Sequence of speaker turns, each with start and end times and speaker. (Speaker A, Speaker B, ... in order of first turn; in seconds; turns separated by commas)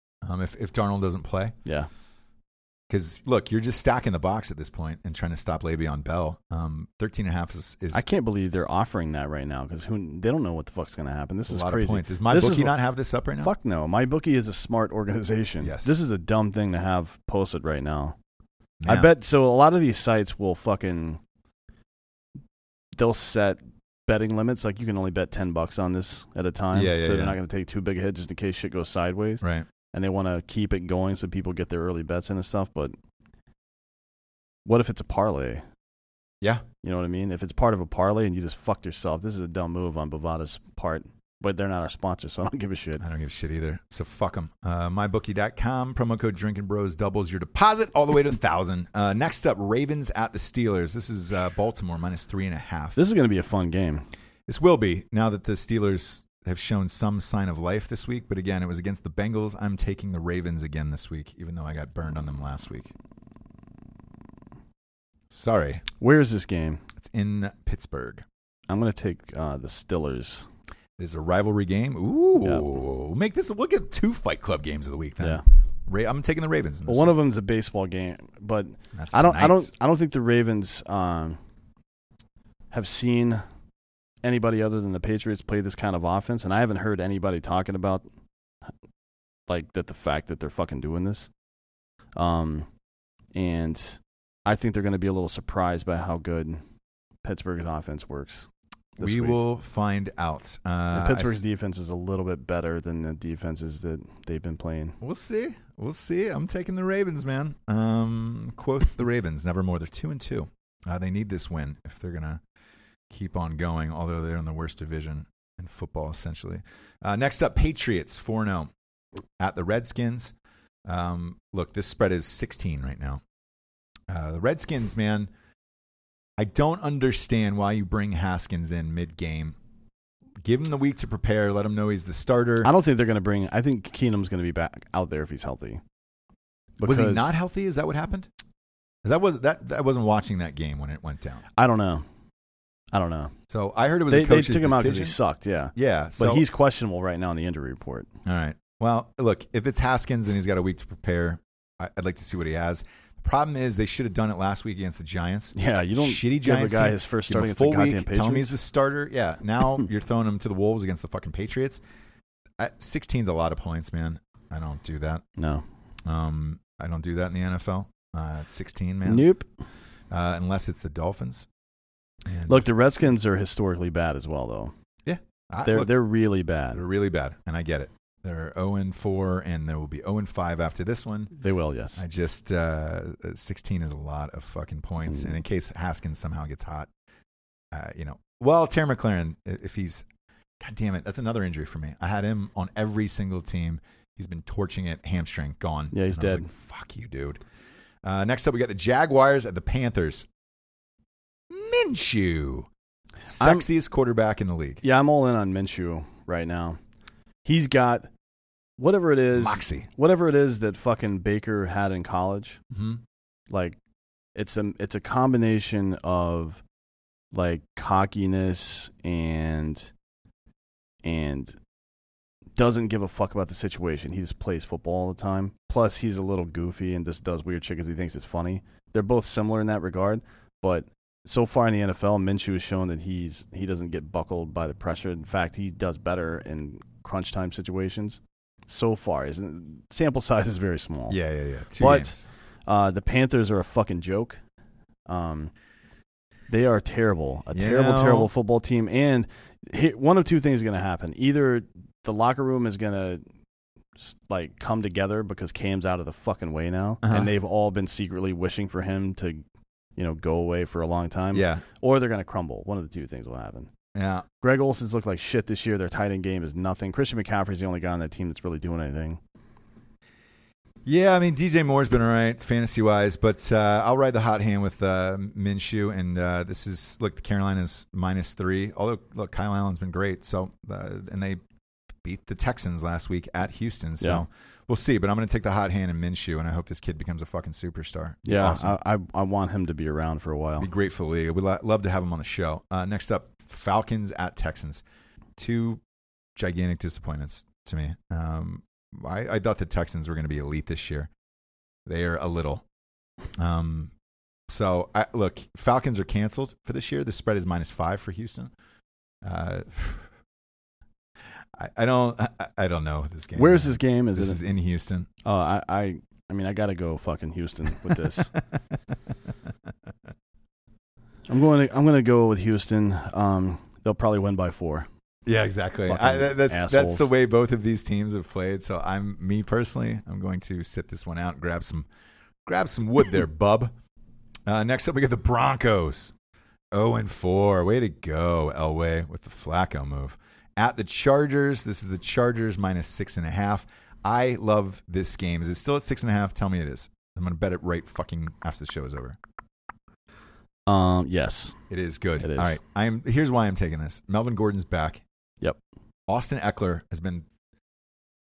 Speaker A: 0.2-1.6, Speaker A: 2.9-8.0, Speaker B: 7.9-12.8, Speaker A: 11.5-13.5, Speaker B: 13.4-18.2, Speaker A: 15.6-15.9, Speaker A: 18.8-19.1, Speaker B: 18.9-21.2, Speaker B: 23.0-33.0, Speaker A: 26.7-27.4, Speaker A: 29.4-29.7, Speaker B: 34.7-35.6, Speaker B: 36.8-43.0, Speaker A: 43.0-53.0, Speaker B: 53.0-54.1, Speaker A: 54.5-62.9, Speaker A: 65.3-65.8, Speaker B: 66.0-66.8, Speaker A: 67.0-68.2, Speaker B: 68.7-70.5, Speaker A: 71.0-77.2, Speaker B: 76.9-81.4, Speaker A: 79.0-79.7, Speaker B: 82.7-83.4, Speaker B: 84.2-88.0, Speaker B: 89.5-91.3, Speaker B: 92.2-92.7, Speaker B: 93.3-96.6, Speaker B: 97.2-99.4, Speaker A: 99.0-101.4, Speaker B: 100.9-105.0, Speaker A: 105.0-112.4, Speaker A: 113.1-118.7, Speaker A: 119.4-120.3, Speaker A: 120.9-123.2, Speaker A: 124.1-125.3, Speaker A: 126.4-129.6, Speaker A: 130.4-132.7, Speaker B: 132.6-135.8, Speaker B: 136.8-137.3, Speaker A: 136.8-138.3, Speaker A: 139.0-141.4, Speaker B: 141.6-142.1, Speaker B: 142.9-143.3, Speaker A: 143.5-145.2, Speaker B: 144.1-148.1, Speaker A: 145.8-146.4, Speaker A: 148.2-161.8, Speaker B: 155.6-158.6, Speaker A: 162.6-165.2, Speaker B: 165.4-165.7, Speaker A: 166.1-169.3, Speaker B: 169.1-169.5, Speaker A: 170.1-171.5, Speaker A: 172.3-172.7, Speaker B: 172.5-174.7, Speaker A: 175.1-175.9, Speaker B: 175.7-176.8, Speaker A: 176.7-181.3, Speaker B: 181.4-182.0, Speaker A: 182.0-186.9, Speaker A: 187.7-190.1, Speaker A: 190.6-197.4, Speaker B: 195.9-196.5, Speaker A: 198.0-200.3, Speaker A: 201.5-202.7, Speaker A: 203.2-204.8, Speaker B: 203.4-203.7, Speaker B: 204.8-206.8, Speaker B: 207.4-208.1, Speaker B: 208.8-212.6, Speaker A: 209.3-209.9, Speaker A: 212.7-213.0, Speaker B: 213.5-213.8, Speaker B: 214.3-216.6, Speaker B: 217.3-219.9, Speaker B: 221.0-221.6, Speaker B: 222.6-241.2, Speaker A: 241.1-242.2, Speaker B: 241.8-244.4, Speaker B: 245.1-245.5, Speaker B: 246.5-253.2, Speaker A: 247.5-248.3, Speaker B: 254.0-259.4, Speaker A: 257.0-257.3, Speaker B: 260.0-263.7, Speaker A: 261.3-261.6, Speaker A: 263.9-264.3, Speaker B: 264.4-269.2, Speaker A: 270.9-281.4, Speaker A: 282.0-288.8, Speaker B: 288.2-290.7, Speaker A: 290.6-294.8, Speaker A: 295.4-295.8, Speaker A: 296.4-301.1, Speaker A: 301.9-302.6, Speaker A: 303.4-303.9, Speaker A: 304.5-308.5, Speaker A: 309.2-310.1, Speaker A: 311.6-315.1, Speaker B: 313.4-314.4, Speaker B: 315.2-318.4, Speaker B: 321.3-324.9, Speaker A: 325.3-331.9, Speaker B: 325.9-327.1, Speaker A: 332.5-333.7, Speaker A: 334.5-336.1, Speaker A: 336.7-349.2, Speaker B: 350.7-351.6, Speaker A: 351.7-355.0, Speaker B: 352.2-352.6, Speaker A: 356.1-357.3